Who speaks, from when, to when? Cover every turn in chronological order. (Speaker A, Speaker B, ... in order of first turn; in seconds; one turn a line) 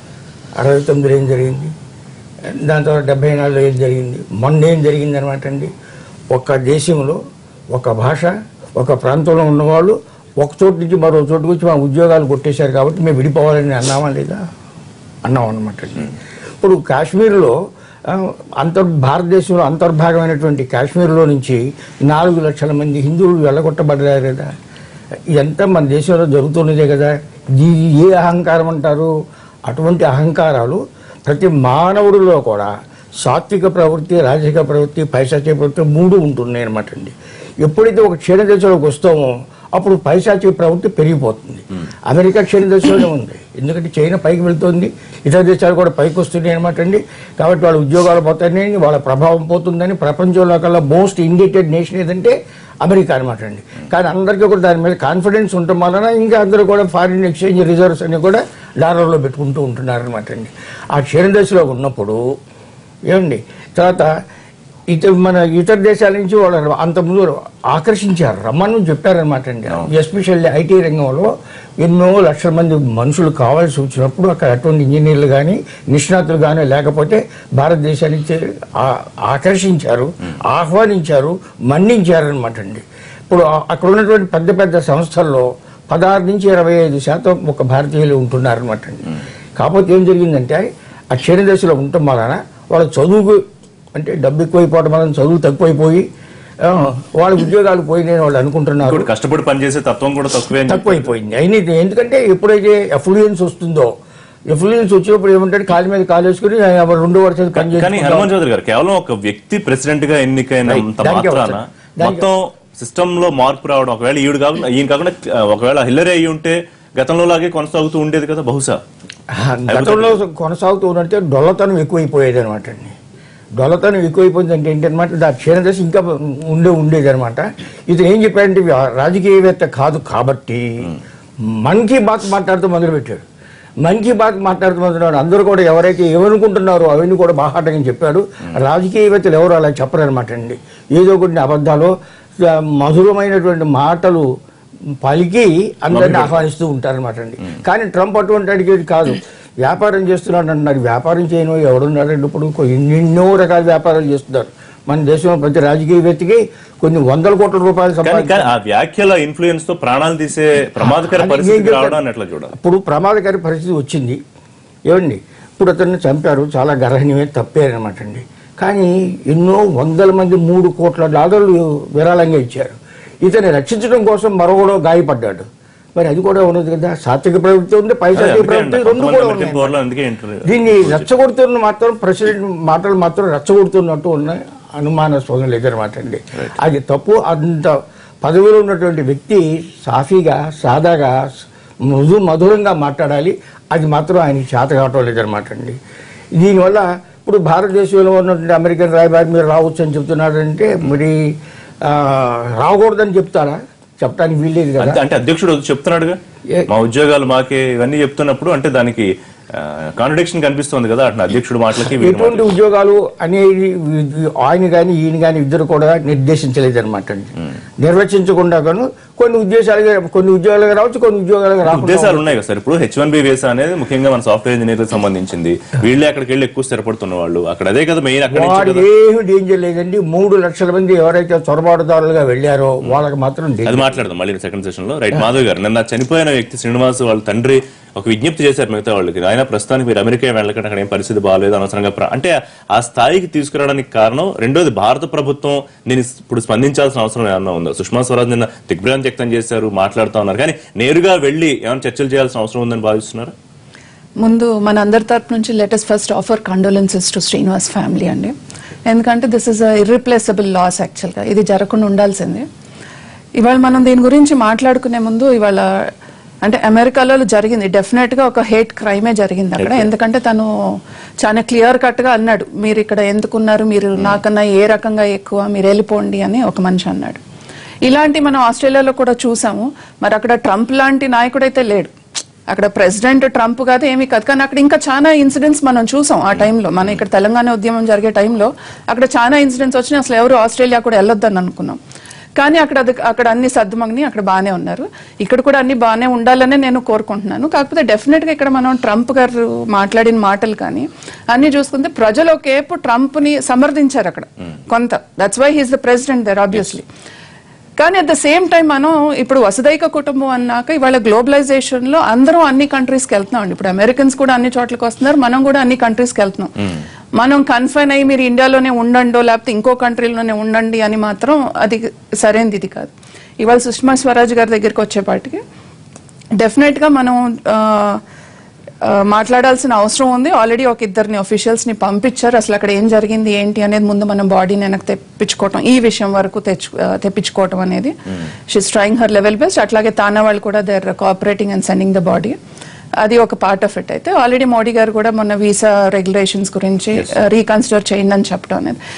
Speaker A: 0.6-1.7
Speaker A: 2.5-5.7
Speaker A: 6.3-7.2
Speaker A: 7.7-14.4
Speaker A: 15.2-17.5
Speaker A: 18.1-24.5
Speaker A: 25.3-29.1
Speaker A: 29.6-62.2
Speaker A: 63.1-64.1
Speaker A: 64.9-93.4
Speaker A: 93.9-96.0
Speaker A: 96.6-99.1
Speaker B: 98.8-101.1
Speaker A: 100.7-103.9
Speaker A: 104.5-108.3
Speaker B: 107.5-118.8
Speaker A: 110.6-112.2
Speaker A: 119.3-122.9
Speaker B: 119.7-120.2
Speaker A: 123.5-130.9
Speaker A: 131.6-133.2
Speaker A: 133.8-144.2
Speaker A: 145.0-158.5
Speaker B: 145.9-146.4
Speaker B: 158.0-162.5
Speaker A: 160.8-162.0
Speaker A: 162.5-164.2
Speaker A: 164.8-179.8
Speaker B: 178.1-181.1
Speaker A: 180.4-195.8
Speaker A: 196.3-201.2
Speaker A: 201.8-205.0
Speaker B: 204.8-206.2
Speaker B: 206.7-212.5
Speaker A: 211.9-222.2
Speaker B: 221.7-228.8
Speaker A: 228.3-234.1
Speaker B: 233.7-253.3
Speaker C: 254.2-258.3
Speaker C: 258.9-262.4
Speaker C: 263.4-265.6
Speaker C: 266.4-270.5
Speaker B: 269.6-269.9
Speaker C: 271.2-277.2
Speaker C: 277.8-281.9
Speaker C: 282.5-291.8
Speaker C: 292.4-306.9
Speaker C: 307.8-316.5
Speaker C: 317.2-325.4
Speaker C: 326.4-328.0
Speaker C: 328.8-337.9
Speaker C: 338.5-342.3
Speaker C: 343.0-348.8